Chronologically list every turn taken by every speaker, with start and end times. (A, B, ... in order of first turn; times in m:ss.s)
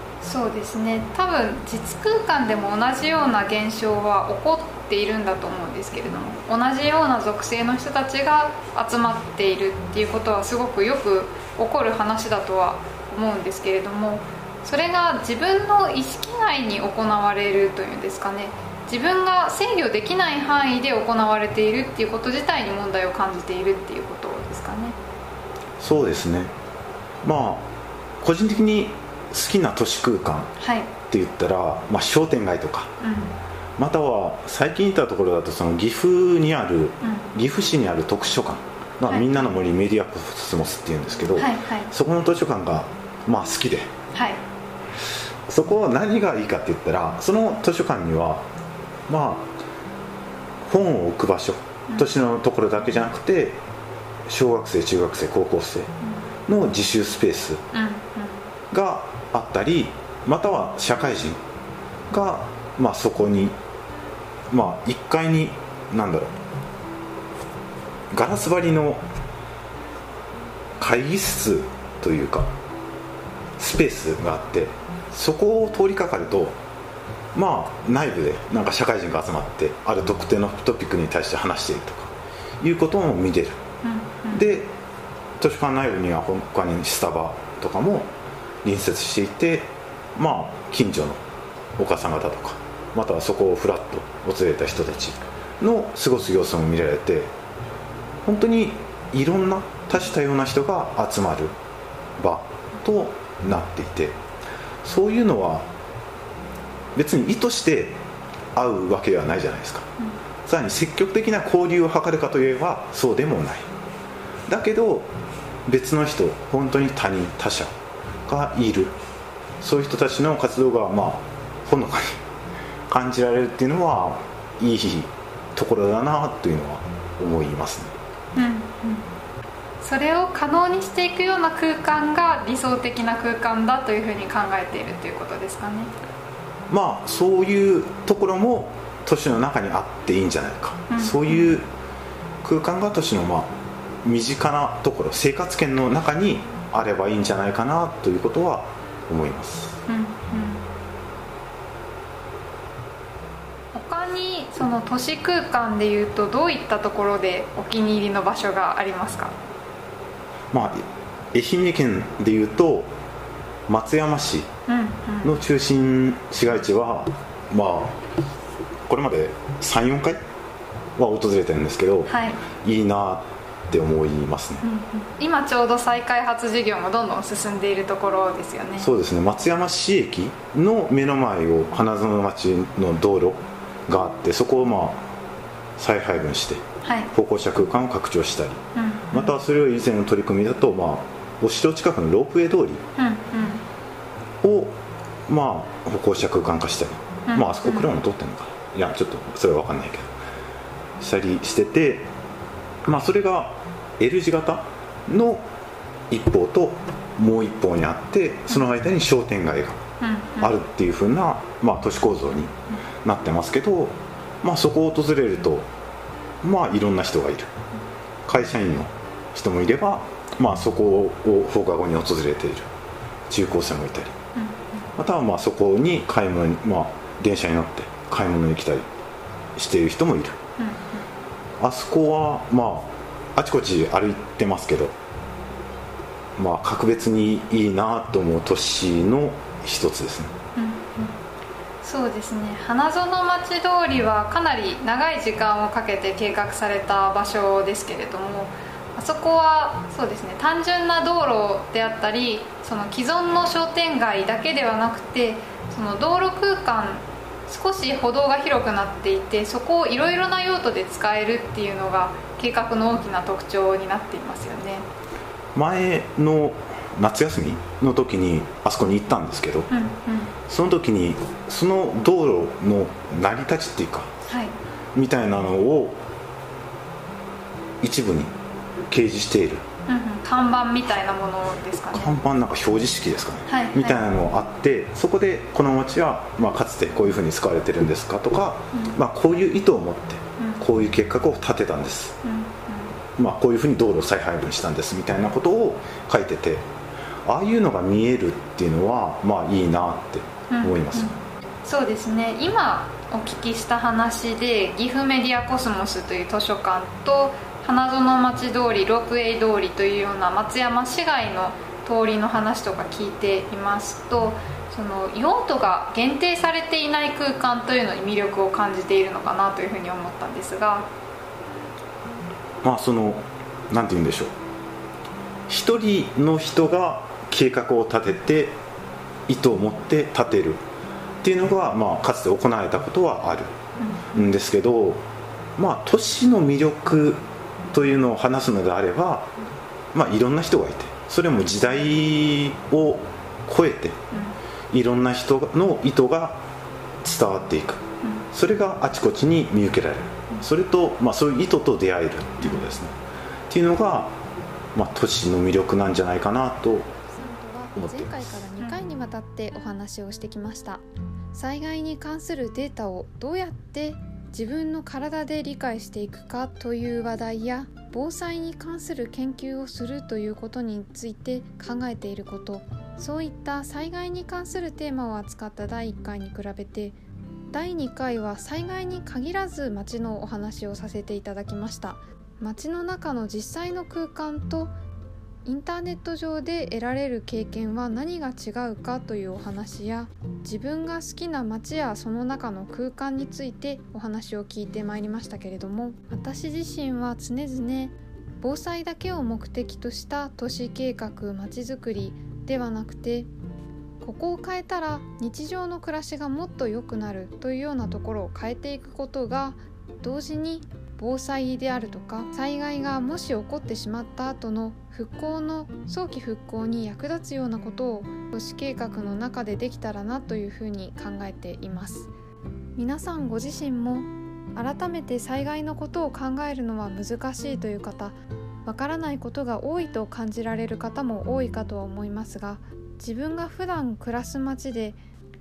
0:00.2-0:25.0 A
0:25.8-0:26.5 B
0:27.2-0:27.7 B
0:28.2-0:30.5 B
0:30.6-0:30.9 A
0:31.1-0:32.9 B
0:33.0-0:33.4 A
0:33.8-0:43.9 B
0:37.0-0:37.3 A
0:39.1-0:39.4 A
0:41.3-0:41.9 A
0:44.1-0:44.4 A
0:45.5-0:48.4 B
0:49.1-0:49.5 B
0:50.6-0:53.6 B
0:54.3-0:55.9 B
0:56.5-0:57.6 B
0:57.7-0:58.4 A
0:58.7-1:01.4 B
1:02.1-1:03.6 B
1:04.5-1:06.3 B
1:08.1-1:09.0 B
1:10.8-1:12.5 B
1:13.6-1:16.6 B
1:17.3-1:23.6 B
1:23.8-1:24.5 A
1:24.3-1:24.7 B
1:25.4-1:28.1 B
1:28.6-1:31.2 B
1:31.8-1:37.3 B
1:38.2-1:41.5 B
1:42.2-1:44.2 B
1:44.8-1:45.7 B
1:46.9-1:48.0 B
1:48.5-1:49.9 B
1:50.4-1:53.7 B
1:54.5-1:55.1 B
1:55.6-1:57.7 B
1:58.2-1:58.9 B
1:59.6-2:02.2 B
2:02.9-2:07.9 B
2:08.3-2:09.1 A
2:09.8-2:15.9 A
2:16.7-2:21.7 B
2:20.9-2:21.6 A
2:22.4-2:23.5 B
2:24.0-2:29.8 B
2:29.9-2:30.6 A
2:33.7-2:39.4 A
2:40.5-2:42.9 B
2:43.7-2:44.5 B
2:44.7-2:45.3 A
2:45.2-2:48.0 B
2:48.9-2:50.2 B
2:51.0-2:54.6 B
2:52.1-2:52.4 A
2:54.6-2:58.9 A
2:58.8-3:05.1 B
3:05.8-3:08.6 B
3:06.8-3:07.1 A
3:08.7-3:09.3 A
3:09.1-3:12.8 B
3:13.0-3:13.6 A
3:14.4-3:14.8 B
3:15.3-3:20.1 B
3:17.3-3:17.9 A
3:21.0-3:22.1 B
3:22.8-3:25.4 B
3:26.1-3:29.8 B
3:30.0-3:30.6 A
3:30.4-3:32.5 B
3:33.0-3:35.7 B
3:36.4-3:37.5 B
3:38.2-3:42.7 B
3:43.3-3:44.1 B
3:44.4-3:44.8 A
3:45.0-3:48.9 B
3:49.6-3:50.4 B
3:50.6-3:51.0 A
3:51.6-3:54.9 B
3:56.4-4:00.3 B
4:00.6-4:01.2 A
4:01.8-4:24.8 A
4:25.5-4:29.7 B
4:29.7-4:30.3 A
4:30.5-4:34.1 B
4:34.3-4:34.6 A
4:34.9-4:36.0 B
4:37.8-4:38.3 B
4:38.9-4:39.6 B
4:39.8-4:42.1 A
4:41.9-4:52.2 B
4:43.5-4:44.0 A
4:50.4-4:50.6 A
4:52.2-4:52.9 A
4:53.2-4:56.6 B
4:57.2-5:01.1 B
5:00.5-5:20.9 A
5:22.6-5:24.3 B
5:25.5-5:28.6 B
5:29.3-5:30.6 B
5:31.2-5:33.5 B
5:33.8-5:34.3 A
5:34.1-5:35.0 B
5:35.6-5:39.3 B
5:39.9-5:44.0 B
5:44.1-5:44.4 A
5:44.7-5:46.4 B
5:47.0-5:53.0 B
5:48.0-5:48.3 A
5:53.5-5:54.2 B
5:54.7-5:56.9 B
5:57.0-6:17.0 C
5:57.8-5:58.5 B
6:17.5-6:24.7 C
6:25.4-6:43.3 C
6:44.0-7:02.1 C
7:02.8-7:15.0 C